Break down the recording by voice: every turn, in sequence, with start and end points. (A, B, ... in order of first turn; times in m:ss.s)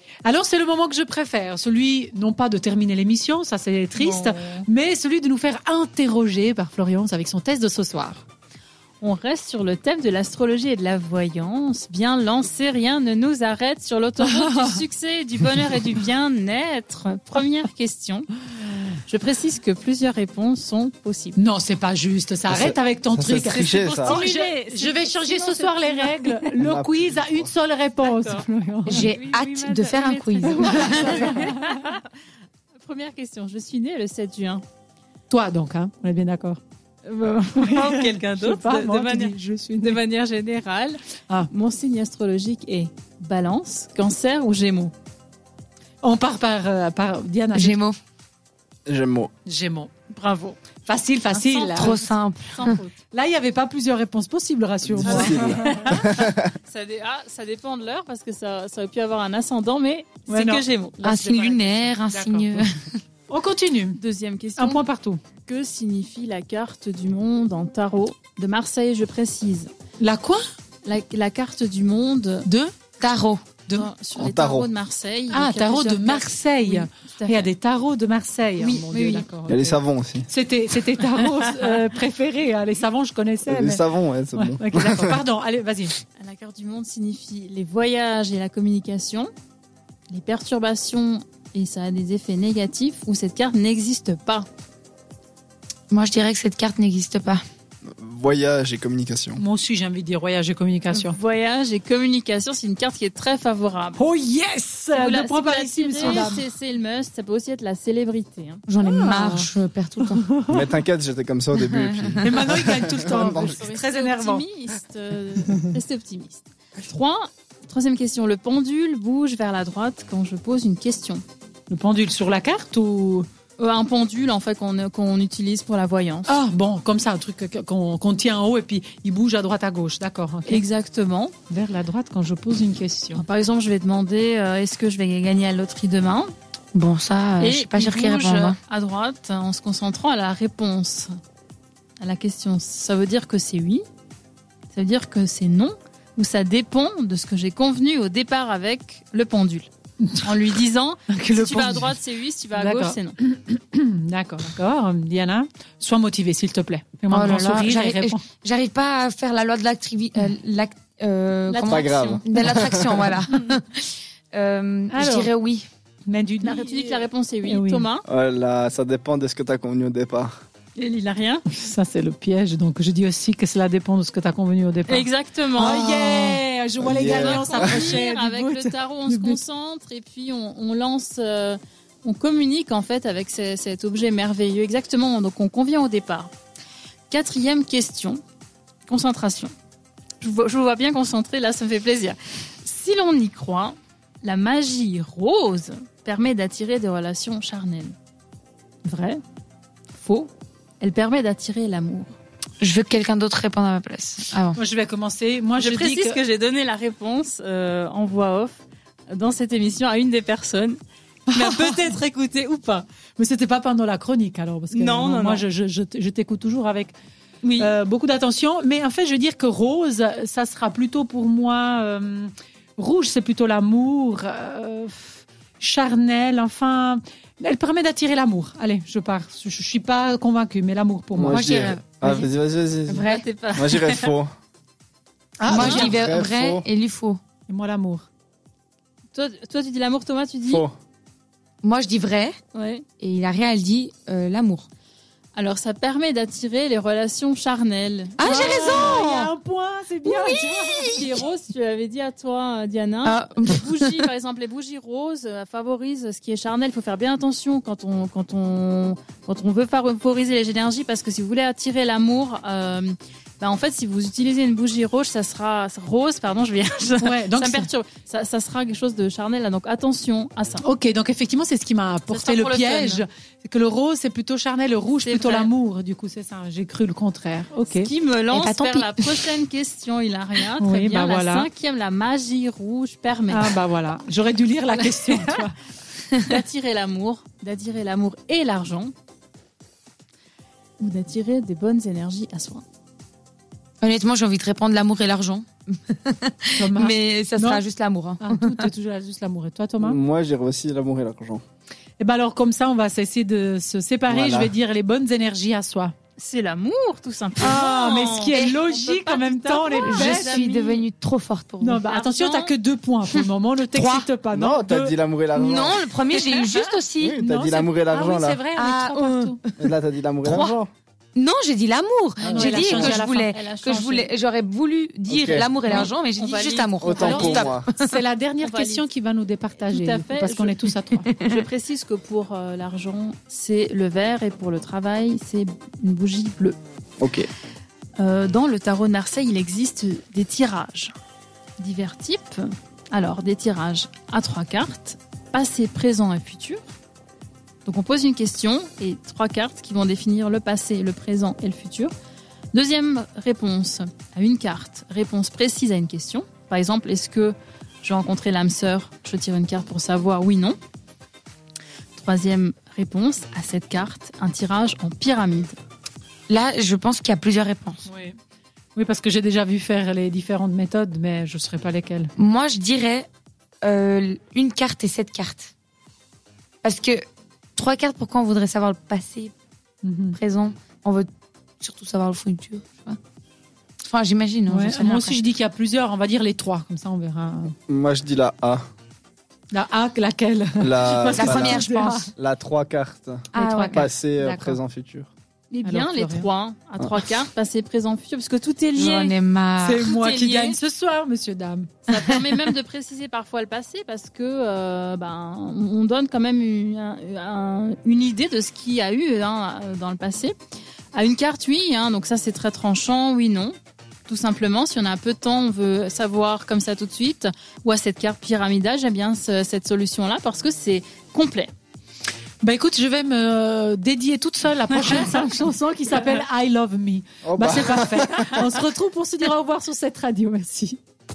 0:00.2-0:08.2 A
0:04.0-0:04.6 B
0:09.0-0:18.3 B
0:14.2-0:14.8 A
0:19.1-0:21.4 B
0:21.4-0:31.8 A
0:22.5-0:24.2 C
0:23.5-0:26.4 B
0:26.6-0:27.5 C
0:28.0-0:29.8 B
0:28.9-0:31.2 D
0:30.4-0:32.0 B
0:32.8-0:34.6 B
0:35.3-0:36.6 A
0:37.0-0:44.9 B
0:37.6-0:40.0 A
0:46.0-0:47.8 A
0:47.5-0:48.0 D
0:48.8-0:49.3 C
0:49.4-0:49.9 A
0:50.1-0:50.6 B
0:50.8-0:52.0 A
0:51.3-0:52.9 B
0:51.8-0:52.8 D
0:52.7-0:55.9 A
0:54.8-0:56.5 C
0:55.0-1:01.3 B
1:00.3-1:02.6 A
1:01.0-1:03.0 D
1:03.3-1:04.0 A
1:04.0-1:04.8 B
1:04.6-1:05.2 A
1:05.4-1:09.7 B
1:10.0-1:10.4 A
1:10.8-1:12.5 B
1:12.4-1:12.7 A
1:13.0-1:13.4 D
1:13.7-1:17.5 B
1:14.2-1:14.7 C
1:15.3-1:26.0 A
1:18.6-1:19.2 D
1:19.5-1:20.3 C
1:23.4-1:25.2 C
1:26.2-1:29.3 B
1:30.1-1:34.5 B
1:35.9-1:37.4 D
1:37.9-1:39.4 C
1:39.4-1:41.2 A
1:40.9-1:44.0 B
1:44.0-1:46.4 A
1:44.9-1:48.6 B
1:48.7-1:50.2 D
1:48.8-1:50.7 A
1:50.5-1:53.6 C
1:52.2-1:54.4 A
1:53.2-2:01.2 B
2:01.7-2:03.3 A
2:03.6-2:06.4 B
2:06.3-2:10.6 A
2:10.5-2:11.3 B
2:11.5-2:13.2 A
2:13.1-2:16.3 B
2:16.7-2:18.6 D
2:17.4-2:21.1 B
2:22.0-2:23.8 B
2:24.7-2:29.7 B
2:30.0-2:30.3 A
2:30.2-2:33.2 B
2:31.1-2:32.0 A
2:32.5-2:38.2 A
2:37.1-2:45.7 D
2:41.5-2:42.2 B
2:41.7-2:43.1 C
2:44.9-2:45.3 A
2:46.0-2:47.9 A
2:46.4-2:48.0 B
2:48.1-2:50.4 C
2:50.8-2:51.4 B
2:51.5-2:59.4 A
2:54.9-2:56.2 B
2:56.8-2:58.0 C
2:57.0-3:06.3 B
3:07.1-3:08.2 B
3:08.9-3:09.5 B
3:10.2-3:17.9 B
3:18.8-3:19.2 B
3:20.0-3:22.1 B
3:22.6-3:24.6 D
3:24.5-3:26.2 A
3:25.6-3:30.8 B
3:31.3-3:31.8 A
3:31.3-3:32.9 B
3:33.2-3:36.9 A
3:34.7-3:35.4 B
3:37.4-3:37.7 B
3:37.6-3:51.5 A
3:51.1-3:54.3 C
3:51.3-3:52.3 D
3:52.9-3:53.2 D
3:53.0-3:54.1 B
3:55.4-3:55.9 A
3:55.4-3:56.6 C
3:55.5-3:57.2 D
3:55.5-3:55.9 B
3:57.5-3:58.0 A
3:59.1-4:00.6 B
4:00.4-4:00.7 C
4:01.6-4:02.4 D
4:02.5-4:02.8 B
4:03.0-4:04.7 D
4:05.3-4:09.0 B
4:08.2-4:09.3 D
4:08.2-4:10.4 A
4:10.1-4:30.7 B
4:10.1-4:11.1 D
4:13.0-4:14.0 D
4:27.0-4:27.7 A
4:30.6-4:37.9 A
4:32.2-4:33.0 B
4:32.2-4:33.0 D
4:35.0-4:35.5 B
4:37.7-4:43.5 B
4:38.3-4:39.3 D
4:40.6-4:41.5 A
4:43.3-4:45.6 A
4:44.7-4:45.4 B
4:46.2-4:48.9 B
4:50.8-4:52.6 B
4:53.8-4:58.6 D
4:56.6-4:57.6 A
4:58.2-5:00.0 A
4:59.8-5:01.4 C
5:02.0-5:05.9 A
5:04.1-5:04.5 C
5:06.2-5:10.8 B
5:07.4-5:10.8 A
5:08.3-5:08.6 D
5:09.8-5:11.8 D
5:11.6-5:14.9 A
5:11.8-5:12.5 B
5:13.7-5:14.0 D
5:14.3-5:15.9 C
5:15.3-5:17.2 D
5:16.1-5:16.4 A
5:16.3-5:16.8 B
5:17.0-5:18.4 C
5:17.2-5:19.4 A
5:18.6-5:19.5 D
5:19.6-5:20.7 C
5:20.2-5:20.6 D
5:21.1-5:27.9 D
5:22.2-5:23.3 A
5:22.3-5:24.1 B
5:25.1-5:25.6 C
5:25.7-5:27.2 B
5:26.8-5:27.6 C
5:27.0-5:31.1 A
5:28.4-5:28.8 B
5:29.7-5:30.6 B
5:31.1-5:31.4 D
5:31.2-5:36.6 B
5:37.0-5:37.3 C
5:38.0-5:40.9 B
5:41.6-5:46.6 B
5:47.6-5:51.9 B
5:52.5-6:00.6 B
6:02.0-6:05.6 B
6:06.3-6:07.8 D
6:07.8-6:08.2 A
6:08.8-6:12.1 A
6:12.2-6:13.1 D
6:13.6-6:15.5 D
6:16.6-6:17.0 D
6:17.6-6:19.3 D
6:19.8-6:20.2 A
6:20.1-6:21.1 D
6:21.6-6:23.0 D
6:23.9-6:25.2 D
6:24.5-6:27.5 A
6:27.7-6:28.6 C
6:29.5-6:32.1 A
6:30.6-6:35.1 C
6:31.1-6:32.1 D
6:33.3-6:34.2 D
6:33.3-6:34.6 A
6:35.5-6:39.1 B
6:35.6-6:36.3 A
6:38.7-6:40.6 D
6:39.6-6:41.8 A
6:41.8-6:50.3 B
6:50.9-6:53.5 B
6:54.1-7:01.5 B
7:02.4-7:10.8 A
7:07.2-7:08.4 C